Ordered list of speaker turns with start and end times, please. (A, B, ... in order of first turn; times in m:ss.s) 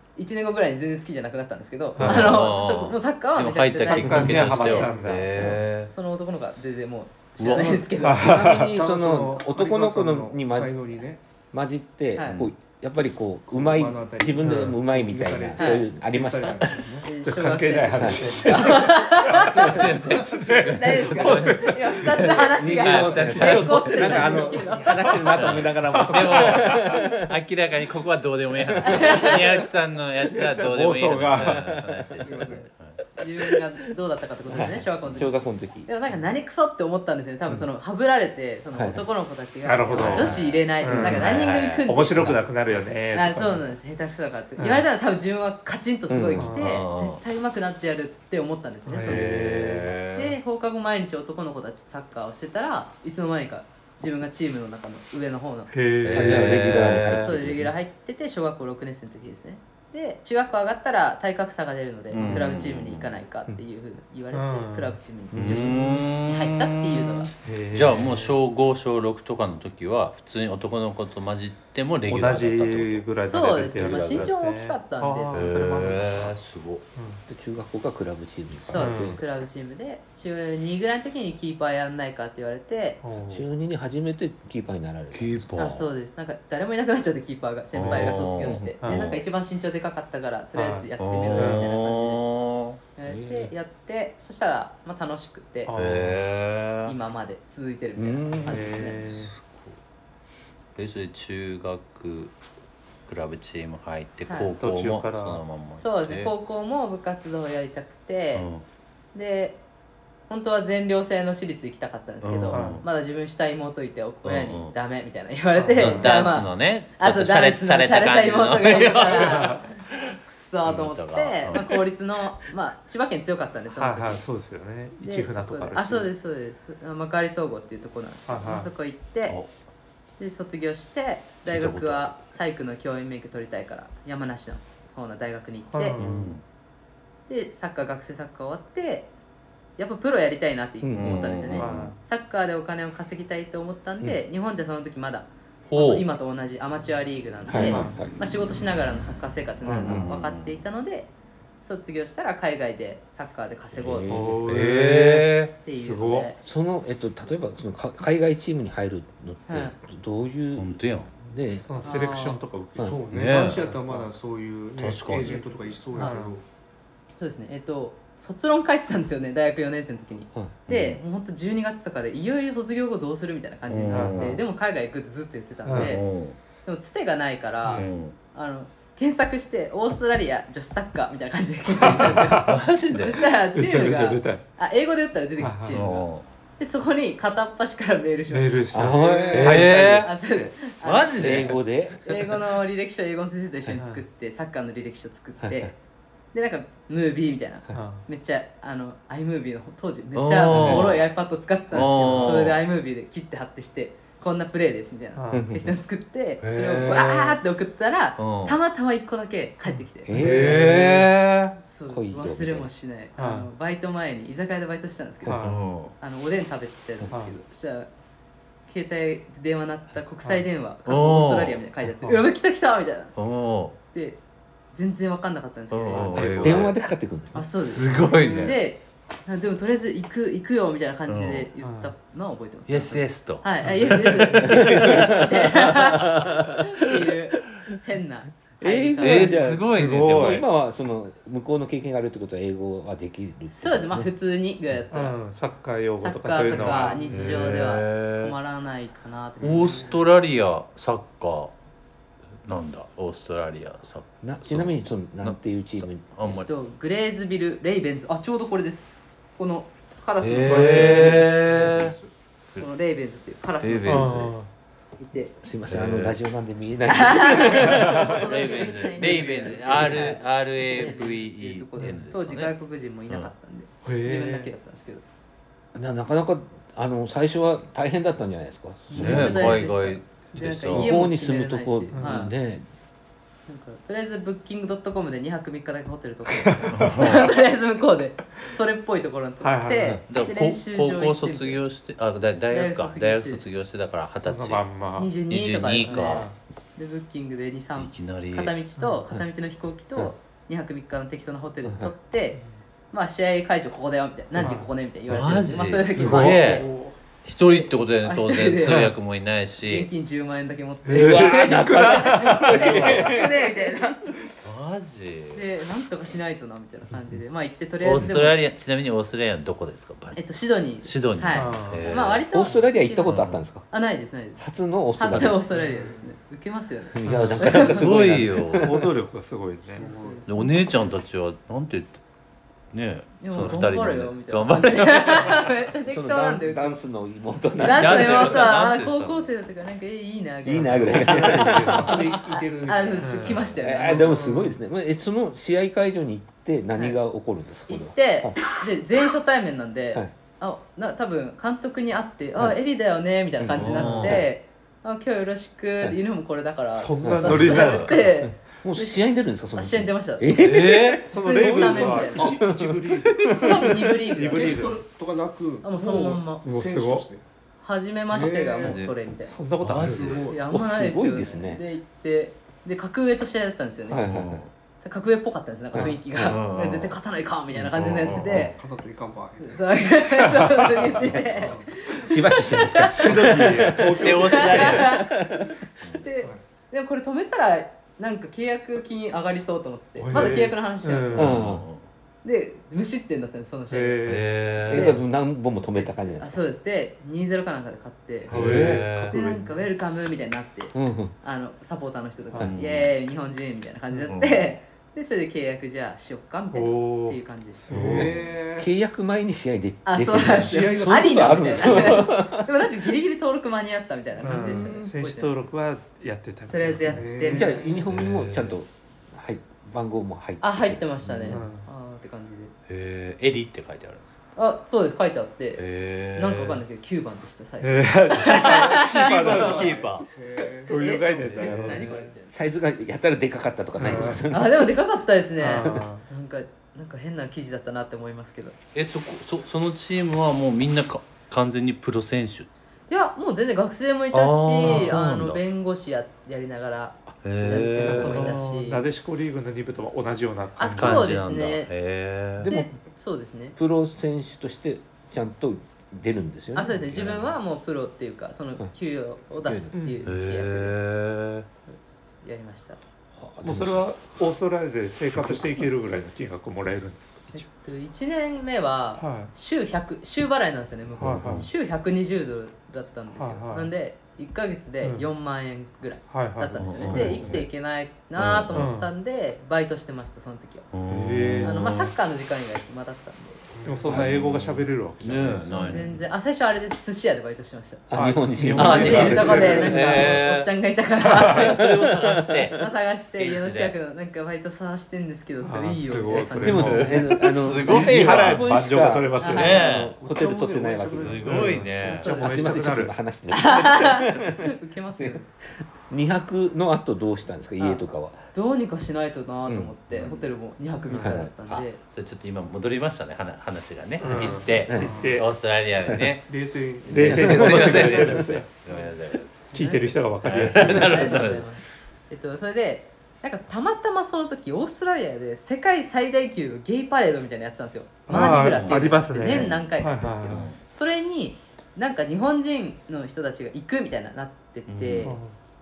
0:00.2-0:04.9 A
0:02.0-0:02.4 B
0:02.0-0:05.9 C
0:03.8-0:05.6 B
0:05.4-0:05.6 D
0:05.9-0:08.3 A
0:07.4-0:07.9 C
0:08.0-0:08.7 B
0:08.1-0:10.9 D
0:08.6-0:11.2 E
0:11.5-0:16.9 D
0:12.2-0:12.4 A
0:13.5-0:17.1 E
0:14.4-0:14.8 B
0:15.6-0:15.9 A
0:17.0-0:20.2 A
0:17.2-0:19.7 B
0:17.9-0:18.4 D
0:19.3-0:24.1 C
0:19.4-0:21.2 E
0:20.2-0:22.5 B
0:20.7-0:25.5 A
0:22.3-0:27.3 D
0:23.2-0:24.6 B
0:25.2-0:33.0 C
0:26.0-0:27.0 B
0:28.7-0:29.2 D
0:28.8-0:29.4 A
0:30.3-0:31.8 B
0:31.3-0:32.4 D
0:32.2-0:32.7 E
0:33.2-0:42.4 A
0:34.5-0:35.9 D
0:38.7-0:39.0 D
0:39.6-0:43.7 B
0:40.0-0:42.3 C
0:43.1-0:55.7 A
0:44.6-0:44.9 B
0:46.1-0:46.6 D
0:46.4-0:46.7 B
0:46.6-0:47.2 C
0:48.9-0:49.9 B
0:49.0-0:50.4 C
0:55.7-0:56.7 B
0:56.0-0:57.4 C
0:56.1-0:57.7 D
0:56.3-1:07.3 A
1:02.1-1:03.1 C
1:04.3-1:05.0 B
1:05.3-1:05.7 D
1:05.3-1:13.1 C
1:07.4-1:08.4 B
1:12.0-1:16.4 B
1:13.2-1:15.5 A
1:13.8-1:14.3 C
1:15.3-1:16.8 C
1:17.0-1:17.2 B
1:17.3-1:19.2 D
1:18.7-1:23.0 A
1:18.7-1:19.2 B
1:23.0-1:23.5 B
1:23.3-1:25.5 D
1:25.1-1:25.9 C
1:25.6-1:32.2 A
1:27.7-1:29.2 C
1:27.9-1:28.2 B
1:28.4-1:28.7 D
1:28.8-1:29.2 B
1:30.6-1:31.7 B
1:31.0-1:32.8 C
1:33.0-1:35.7 A
1:33.1-1:33.5 D
1:35.7-1:36.2 B
1:35.7-1:37.0 C
1:36.8-1:39.0 A
1:38.0-1:39.0 D
1:38.5-1:39.3 B
1:39.1-1:39.8 C
1:40.8-1:42.4 C
1:43.1-1:46.3 C
1:44.3-1:44.5 A
1:44.6-1:45.4 B
1:45.8-1:48.5 A
1:48.4-1:48.6 C
1:49.1-1:49.6 A
1:50.3-2:04.2 A
1:52.2-1:52.8 C
1:52.5-1:52.8 B
1:54.2-1:54.7 C
1:55.6-1:56.3 B
1:55.8-2:01.7 C
1:59.0-1:59.8 B
2:03.7-2:06.1 B
2:05.0-2:09.4 A
2:08.3-2:08.7 B
2:10.2-2:16.0 A
2:11.4-2:12.2 C
2:15.7-2:16.4 B
2:16.0-2:16.4 C
2:17.3-2:19.1 A
2:19.8-2:31.1 A
2:20.8-2:21.3 D
2:21.0-2:21.9 C
2:21.6-2:22.0 B
2:25.7-2:26.1 C
2:27.5-2:28.1 D
2:27.7-2:28.0 B
2:29.7-2:30.0 B
2:29.8-2:30.6 C
2:31.6-2:34.2 A
2:33.8-2:34.5 D
2:34.1-2:36.3 B
2:34.5-2:35.5 C
2:35.6-2:36.4 A
2:36.4-2:41.7 D
2:39.5-2:39.8 A
2:40.6-2:41.1 C
2:41.6-2:44.1 B
2:41.8-2:42.4 A
2:42.8-2:43.0 D
2:42.8-2:46.4 E
2:43.1-2:43.6 C
2:44.8-2:45.4 C
2:45.2-2:46.2 A
2:45.9-2:46.4 B
2:47.2-2:56.0 A
2:50.7-2:51.0 C
2:53.7-2:54.4 C
2:53.9-2:54.4 B
2:55.7-2:56.0 B
2:55.7-2:56.4 C
2:56.6-3:06.1 A
2:57.6-2:57.9 B
2:57.7-2:58.2 C
3:01.8-3:02.6 B
3:02.4-3:03.3 C
3:03.5-3:04.4 B
3:05.4-3:05.8 B
3:05.6-3:06.3 C
3:06.6-3:11.5 A
3:08.3-3:10.6 B
3:08.7-3:09.8 D
3:09.3-3:10.1 C
3:10.8-3:11.6 C
3:11.2-3:12.4 D
3:12.0-3:15.8 A
3:13.8-3:14.0 B
3:15.4-3:15.7 D
3:16.3-3:30.1 A
3:17.7-3:18.1 B
3:20.2-3:21.0 C
3:20.5-3:20.9 D
3:21.7-3:22.6 C
3:25.2-3:25.5 B
3:25.3-3:25.7 D
3:26.4-3:27.4 C
3:28.2-3:28.6 C
3:29.7-3:30.6 B
3:30.1-3:31.1 D
3:30.1-3:31.6 C
3:31.6-3:35.5 A
3:31.9-3:32.7 D
3:33.2-3:33.5 B
3:35.3-3:35.6 B
3:35.4-3:36.0 C
3:36.0-3:37.9 A
3:37.1-3:37.4 B
3:38.7-3:43.2 A
3:40.8-3:41.6 C
3:42.0-3:42.3 B
3:43.2-3:43.8 C
3:43.9-3:44.2 A
3:44.7-3:46.7 A
3:45.7-3:46.8 C
3:46.0-3:46.6 B
3:46.4-3:47.5 D
3:47.3-3:59.5 A
3:47.7-3:48.6 C
3:51.1-3:51.5 C
3:51.6-3:51.9 B
3:52.7-3:55.4 C
3:53.6-3:54.6 B
3:54.4-3:57.1 D
3:58.6-4:04.1 D
3:59.0-4:00.4 C
3:59.6-4:00.4 B
4:03.5-4:05.2 A
4:04.9-4:07.6 B
4:06.0-4:10.0 A
4:06.5-4:08.4 C
4:09.4-4:11.5 C
4:09.4-4:09.9 E
4:12.4-4:16.5 C
4:14.2-4:16.1 D
4:16.2-4:21.3 A
4:20.2-4:22.0 C
4:20.4-4:21.3 B
4:21.2-4:22.1 E
4:22.6-4:24.4 A
4:23.6-4:24.3 C
4:23.9-4:24.5 B
4:25.0-4:25.3 A
4:25.3-4:28.2 D
4:25.7-4:26.2 C
4:26.9-4:35.0 A
4:27.7-4:28.1 B
4:28.0-4:32.5 C
4:29.0-4:30.2 E
4:33.8-4:34.5 B
4:35.7-4:39.6 D
4:38.9-4:42.3 A
4:39.0-4:41.0 C
4:40.7-4:42.7 D
4:41.9-4:42.3 B
4:43.5-4:51.6 A
4:46.4-4:47.0 B
4:46.7-4:47.3 C
4:49.4-4:50.0 B
4:50.1-4:54.7 C
4:52.5-4:53.5 A
4:54.2-4:55.1 B
4:55.0-5:06.7 A
4:55.3-4:56.3 C
4:55.8-4:56.4 B
4:57.8-4:58.6 C
4:58.8-4:59.0 B
5:01.6-5:01.9 D
5:04.4-5:04.7 B
5:05.1-5:06.7 C
5:06.0-5:06.4 B
5:06.2-5:07.0 E
5:07.2-5:09.9 C
5:07.5-5:08.9 A
5:09.6-5:14.0 A
5:10.8-5:13.2 B
5:11.0-5:14.0 D
5:14.4-5:15.4 C
5:15.3-5:18.4 A
5:17.8-5:20.3 C
5:20.2-5:27.9 A
5:20.8-5:22.2 C
5:21.3-5:22.0 B
5:22.3-5:23.7 D
5:23.0-5:23.4 C
5:24.4-5:25.4 D
5:25.6-5:25.9 B
5:27.0-5:28.9 D
5:27.1-5:27.5 B
5:27.2-5:28.7 C
5:28.6-5:30.2 B
5:29.8-5:30.2 E
5:29.8-5:30.9 A
5:30.3-5:32.0 C
5:32.7-5:35.5 C
5:33.2-5:36.8 A
5:35.9-5:38.5 D
5:37.6-5:44.4 A
5:37.6-5:39.3 C
5:40.4-5:42.1 D
5:40.8-5:43.5 E
5:41.0-5:41.9 B
5:43.0-5:43.4 B
5:43.6-5:48.4 D
5:43.9-5:44.5 B
5:47.7-5:59.0 A
5:53.4-5:54.3 D
5:53.6-5:54.2 C
5:56.7-5:58.1 B
5:57.0-6:03.9 D
5:59.5-6:00.5 A
6:00.4-6:01.0 C
6:01.1-6:02.5 B
6:01.1-6:02.4 A
6:01.9-6:03.7 E
6:03.2-6:04.8 A
6:04.1-6:04.8 B
6:04.2-6:07.2 E
6:05.6-6:06.5 A
6:06.4-6:07.1 B
6:07.6-6:09.4 A
6:08.1-6:08.9 E
6:08.6-6:08.9 C
6:09.3-6:10.3 B
6:09.6-6:10.3 C
6:09.8-6:10.4 E
6:10.0-6:14.1 A
6:10.5-6:11.6 D
6:13.9-6:14.4 D
6:14.0-6:14.5 C
6:14.8-6:18.6 A
6:15.7-6:16.4 D
6:16.2-6:17.0 C
6:17.8-6:18.5 C
6:18.3-6:19.7 E
6:19.4-6:23.2 A
6:20.4-6:20.8 B
6:21.2-6:21.7 E
6:21.9-6:25.6 D
6:22.9-6:24.8 B
6:23.8-6:25.0 C
6:24.0-6:31.3 A
6:30.0-6:31.4 B
6:31.2-6:31.7 D
6:31.2-6:31.9 C
6:32.2-6:34.1 A
6:33.7-6:34.3 B
6:34.1-6:35.0 C
6:34.7-6:36.4 D
6:34.7-6:35.0 A
6:35.8-6:38.4 A
6:38.3-6:39.2 C
6:38.3-6:38.9 D
6:38.3-6:39.7 B
6:39.1-6:48.0 A
6:40.7-6:41.1 D
6:42.4-6:42.9 C
6:44.1-6:44.5 C
6:46.5-6:48.1 B
6:47.7-6:48.7 E
6:47.8-6:52.5 D
6:49.9-6:55.5 A
6:50.2-6:52.1 E
6:54.2-6:57.1 B
6:54.3-6:54.9 D
6:56.5-6:57.6 A
6:56.9-6:57.9 E
6:57.3-7:01.4 D
6:57.9-6:58.5 C
7:00.4-7:02.5 A
7:01.3-7:01.7 B
7:02.7-7:04.2 C
7:04.4-7:05.6 A
7:05.6-7:06.6 C
7:06.2-7:09.7 A
7:07.6-7:09.7 B
7:08.2-7:10.1 C
7:09.2-7:12.0 E
7:10.7-7:12.1 B
7:10.7-7:12.3 A
7:12.3-7:14.7 D
7:13.8-7:14.2 B
7:14.3-7:18.6 A
7:15.4-7:16.1 B
7:15.6-7:15.8 D
7:18.8-7:22.5 C
7:22.9-7:28.8 A
7:24.1-7:25.4 C
7:24.6-7:25.0 B
7:27.2-7:28.4 C
7:27.8-7:31.1 B
7:30.6-7:31.7 A
7:30.7-7:32.5 C
7:32.4-7:32.8 D
7:32.5-7:33.6 A
7:33.6-7:37.2 D
7:36.5-7:40.7 A
7:36.9-7:37.2 C
7:39.6-7:41.5 C
7:39.7-7:40.0 B
7:41.7-7:42.8 A
7:43.2-7:43.9 D
7:43.4-7:47.5 B
7:45.0-7:45.6 D
7:47.3-8:00.7 A
7:49.0-7:49.3 B
7:51.0-7:51.5 B
7:51.0-7:51.5 C
7:53.2-7:53.7 B
7:54.8-7:55.1 B
7:56.1-7:57.5 B
7:56.6-7:57.4 C
7:58.2-7:58.7 C
7:58.5-7:58.9 B
8:00.7-8:01.9 C
8:00.9-8:01.6 B
8:01.4-8:04.0 A
8:03.6-8:06.0 B
8:03.9-8:05.9 C
8:05.6-8:11.6 A
8:07.9-8:09.8 D
8:07.9-8:10.1 B
8:08.5-8:10.5 C
8:11.0-8:11.6 B
8:11.2-8:13.8 C
8:11.6-8:12.5 D
8:12.6-8:17.1 A
8:15.4-8:19.7 B
8:16.4-8:21.5 D
8:16.8-8:18.5 C
8:19.2-8:19.7 A
8:19.4-8:20.0 C
8:20.0-8:21.7 E
8:20.9-8:22.1 C
8:21.2-8:23.0 B
8:21.8-8:22.7 A
8:22.0-8:28.2 D
8:23.3-8:25.3 A
8:28.3-8:31.8 A
8:29.5-8:29.7 D
8:31.0-8:31.3 D
8:31.5-8:36.3 C
8:34.0-8:35.3 B
8:34.1-8:34.4 A
8:34.8-8:35.2 E
8:35.9-8:36.1 D
8:36.3-8:37.9 E
8:36.9-8:38.5 B
8:37.0-8:38.3 D
8:37.0-8:39.5 C
8:39.5-8:41.3 B
8:39.5-8:55.2 A
8:40.2-8:41.5 C
8:48.1-8:50.4 B
8:48.1-8:49.6 C
8:50.3-8:50.6 C
8:54.7-8:55.2 C
8:55.0-8:55.4 B